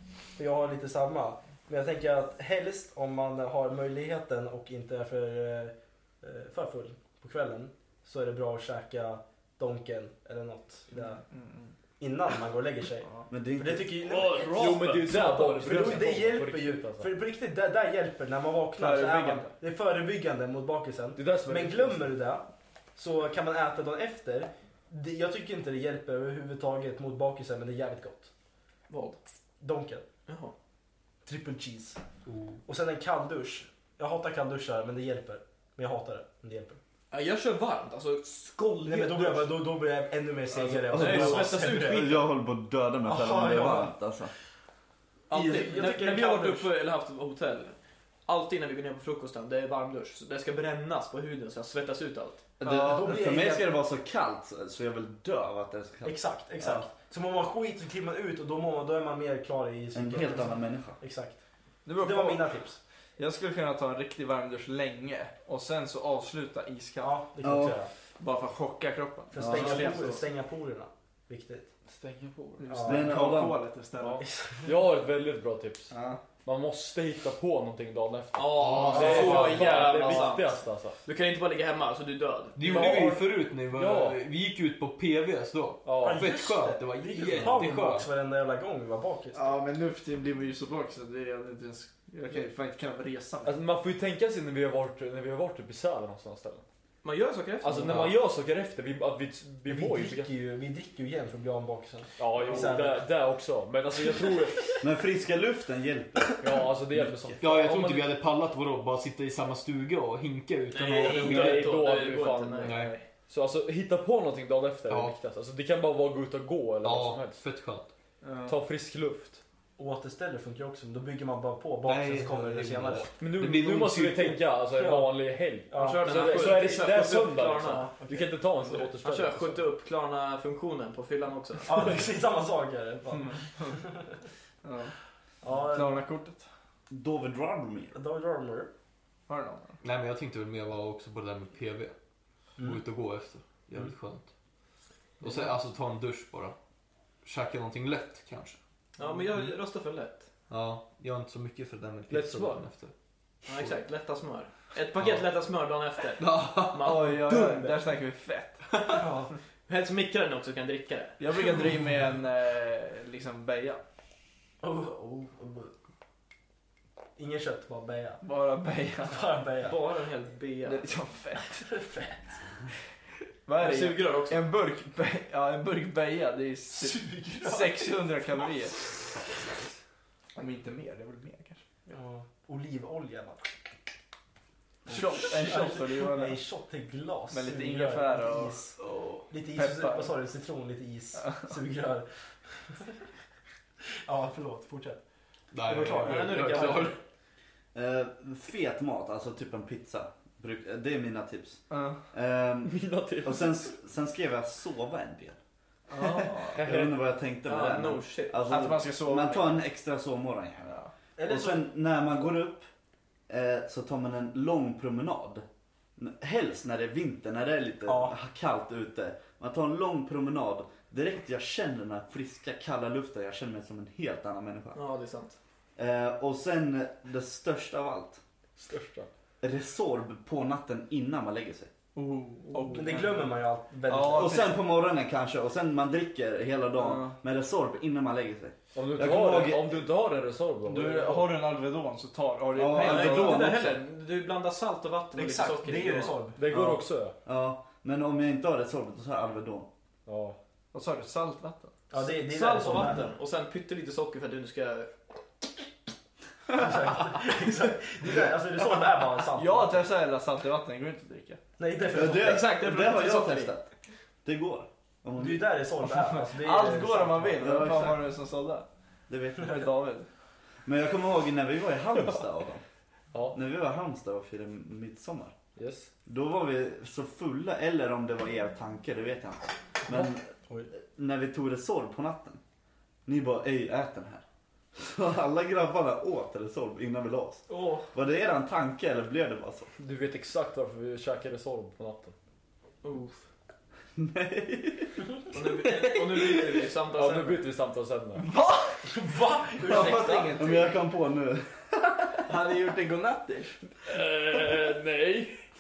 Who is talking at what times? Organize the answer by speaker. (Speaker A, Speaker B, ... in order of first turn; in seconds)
Speaker A: 0.4-11.2, 12.0-28.3, 29.6-30.1, 31.2-32.0, 32.6-36.8, 38.8-42.1, 43.0-44.0, 45.3-46.7, 52.6-53.7, 56.0-61.4, 62.0-62.8, 67.0-67.9, 69.3-71.7, 72.7-73.2, 74.2-74.7, 78.9-79.8, 82.7-83.2, 86.0-89.5, 99.7-103.1, 111.1-111.5, 119.8-123.1, 124.7-126.6, 127.9-128.4, 131.7-133.9, 135.4-136.1, 137.9-138.7, 158.9-159.3, 164.6-165.7, 167.2-168.2, 169.1-169.8, 171.7-172.4, 176.7-178.2, 181.9-183.7, 184.9-188.8, 189.3-192.1, 194.1-195.0, 195.7-197.0, 211.2-212.3, 217.9-218.2, 232.7-234.5, 245.1-246.4, 251.9-253.1, 256.5-259.9, 261.6-262.5, 265.2-267.5, 279.9-280.7, 298.8-300.5
Speaker B: 10.9-11.7, 15.7-15.9, 18.8-19.5, 61.9-62.6, 63.2-67.2, 68.2-70.2, 72.6-74.3, 75.9-76.3, 89.3-93.6, 118.2-118.6, 133.1-133.8, 134.6-134.9, 135.6-136.5, 139.3-139.8, 156.8-158.8, 161.2-163.8, 168.2-169.4, 170.6-171.8, 173.5-178.8, 180.4-181.6, 184.9-186.4, 187.3-188.7, 189.5-190.1, 191.2-191.5, 201.7-202.0, 205.9-206.7, 208.5-209.6, 210.7-210.9, 231.9-234.6, 236.8-237.2, 240.6-243.7, 250.7-251.8, 259.3-261.4, 265.8-268.7, 269.4-270.1, 298.2-298.8, 299.6-300.8, 302.3-303.6
Speaker C: 13.3-14.0, 40.9-44.3, 52.6-56.9, 59.9-61.0, 67.4-67.8, 69.4-69.9, 72.9-73.6, 104.8-107.4, 136.9-138.0, 197.7-205.4, 206.6-212.7, 213.3-215.4, 216.0-224.8, 225.8-228.2, 229.4-231.7, 234.1-239.8, 242.5-243.8, 246.5-249.7, 261.9-263.7, 264.2-265.6, 267.4-268.1, 269.1-269.6, 270.6-272.6, 273.3-275.3, 276.1-282.4, 283.1-284.2, 284.8-289.7, 294.0-295.1, 299.7-302.3
Speaker D: 14.1-15.8, 28.9-29.2, 30.3-30.5, 37.1-39.6, 40.6-42.3, 45.3-47.8, 48.3-52.4, 78.3-83.1, 97.0-98.1, 110.7-113.0, 125.8-127.9, 129.0-132.0, 149.0-150.3, 153.5-157.8, 159.7-161.2, 169.6-170.9, 173.6-174.4, 196.0-197.0, 207.4-208.4, 224.7-225.4, 232.5-232.8, 242.8-246.2, 252.0-254.9, 261.9-263.6, 287.5-287.9, 292.8-293.2, 295.3-297.5
Speaker E: 14.5-17.1, 21.2-22.1, 71.9-72.6, 74.0-81.0, 82.7-84.2, 85.8-86.3, 93.5-96.6, 97.6-100.3, 102.2-104.8, 106.4-108.2, 111.0-117.4, 118.5-119.4, 123.2-129.7, 152.1-152.7, 202.7-203.6, 206.5-207.0, 228.6-229.1, 238.7-241.3, 246.4-247.2, 250.1-250.4, 275.6-275.9, 289.8-292.1, 296.9-298.2, 303.9-305.4
Speaker F: 78.6-79.7, 82.6-88.1, 97.8-98.1, 107.4-111.7, 112.6-113.0, 114.9-115.2, 116.8-117.9, 121.8-124.5, 139.8-141.9, 142.6-144.3, 145.2-146.6, 147.2-148.6, 150.5-152.9, 155.0-155.2, 156.2-157.1, 195.5-197.0